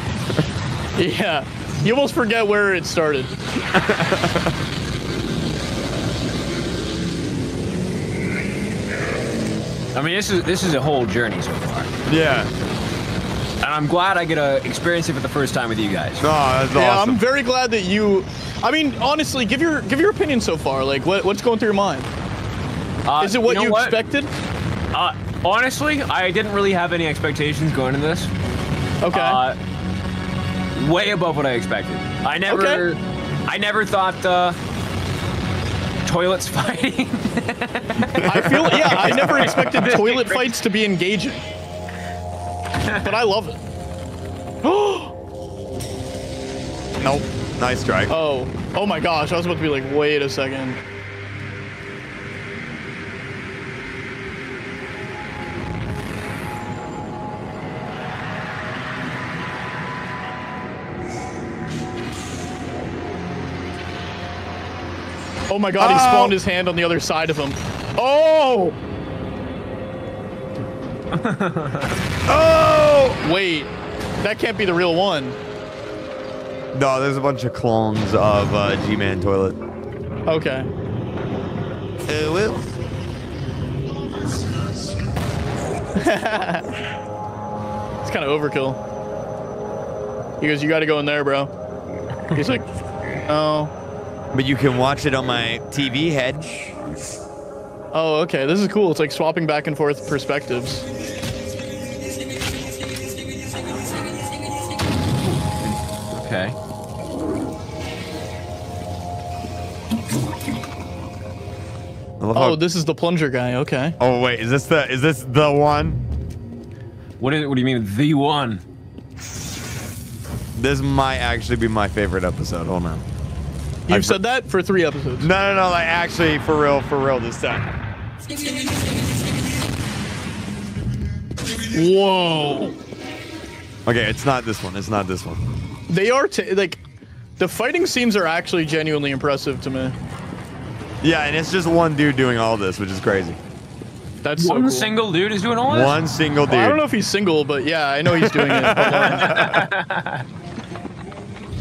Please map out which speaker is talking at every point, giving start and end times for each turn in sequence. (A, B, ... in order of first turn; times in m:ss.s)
0:01.0-0:03.3 A
0:03.7-0:04.6 B
0:09.9-0:11.9 C
0:12.1-0:12.5 B
0:13.6-0:16.2 C
0:16.2-0:17.2 B
0:16.8-0:22.1 A
0:23.0-0:24.0 C
0:23.2-0:24.3 A
0:24.9-0:28.3 C
0:29.0-0:29.4 A
0:29.1-0:29.6 C
0:30.8-0:34.6 C
0:32.5-0:32.8 A
0:36.0-0:40.6 C
0:38.0-0:39.8 B
0:38.2-0:41.5 A
0:42.8-0:43.1 C
0:43.0-0:43.6 A
0:44.6-0:45.2 A
0:47.0-0:48.1 B
0:48.1-0:50.8 A
1:05.5-1:08.8 A
1:05.8-1:06.4 B
1:11.1-1:12.0 C
1:12.3-1:13.2 B
1:13.2-1:15.4 A
1:16.7-1:19.6 B
1:20.3-1:20.7 A
1:22.1-1:22.7 B
1:26.0-1:26.7 A
1:28.0-1:28.8 A
1:30.4-1:31.5 A
1:32.3-1:32.7 A
1:33.3-1:33.7 A
1:34.3-1:36.5 B
1:37.9-1:40.9 A
1:45.2-1:46.6 C
1:52.2-1:52.6 B
1:52.4-1:54.0 A
1:54.0-1:56.0 B
1:57.2-1:58.6 C
2:00.6-2:03.0 B
2:03.9-2:05.3 A
2:03.9-2:04.2 B
2:05.2-2:07.6 B
2:11.7-2:12.8 A
2:13.9-2:15.4 B
2:15.9-2:16.8 A
2:17.4-2:20.0 A
2:21.0-2:23.4 B
2:24.2-2:24.9 A
2:24.4-2:26.0 C
2:25.7-2:26.8 B
2:26.5-2:29.7 A
2:28.2-2:29.7 B
2:29.0-2:30.2 C